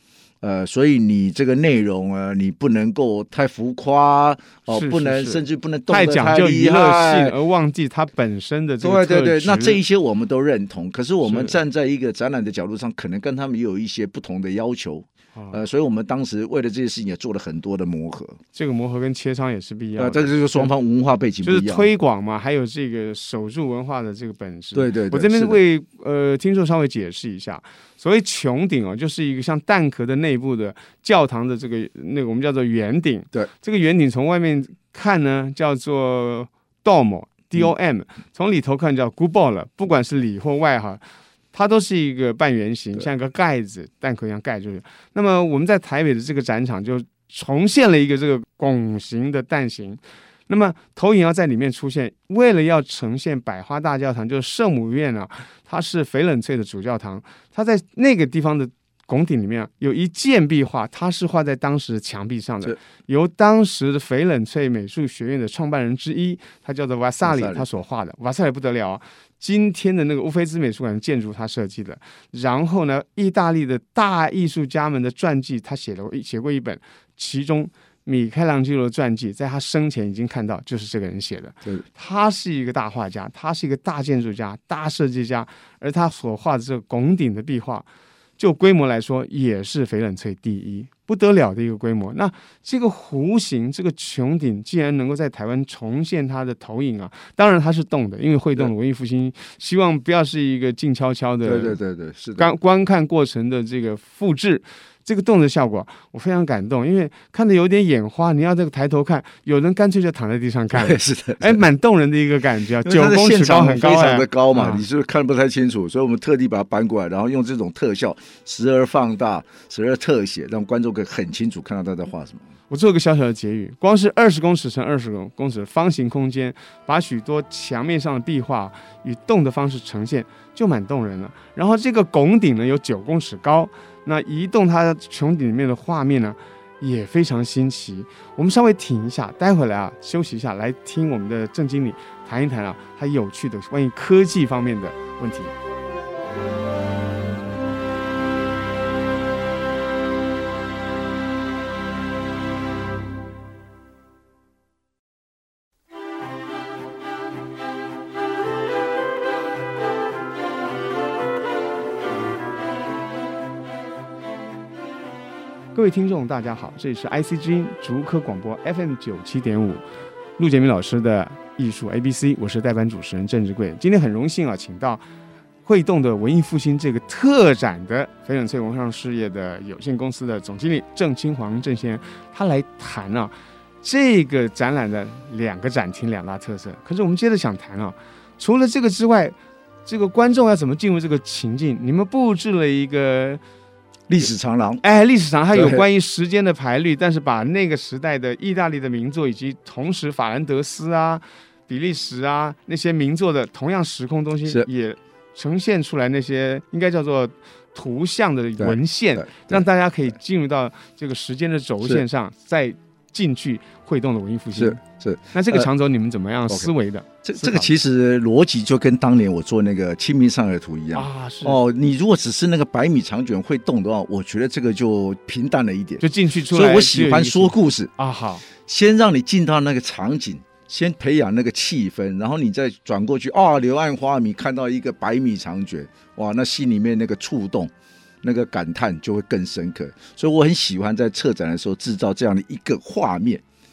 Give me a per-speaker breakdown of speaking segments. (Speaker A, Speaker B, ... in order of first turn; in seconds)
Speaker A: 0.4-7.3, 8.8-18.4, 20.0-21.9, 24.7-25.6, 67.2-67.7, 101.4-102.5, 110.7-111.6, 112.8-122.4, 194.1-194.8, 195.5-195.8, 208.6-209.6, 214.5-215.7, 217.2-227.9, 228.5-237.7, 238.2-243.4
Speaker B: 4.7-9.8, 11.2-11.6, 18.5-20.7, 21.4-41.0, 41.5-87.8, 88.4-101.8, 102.4-114.8, 122.7-145.5, 165.7-169.8, 170.4-175.0, 175.6-189.3, 189.8-193.4, 194.8-214.8, 215.3-217.7, 220.9-221.6, 226.0-228.4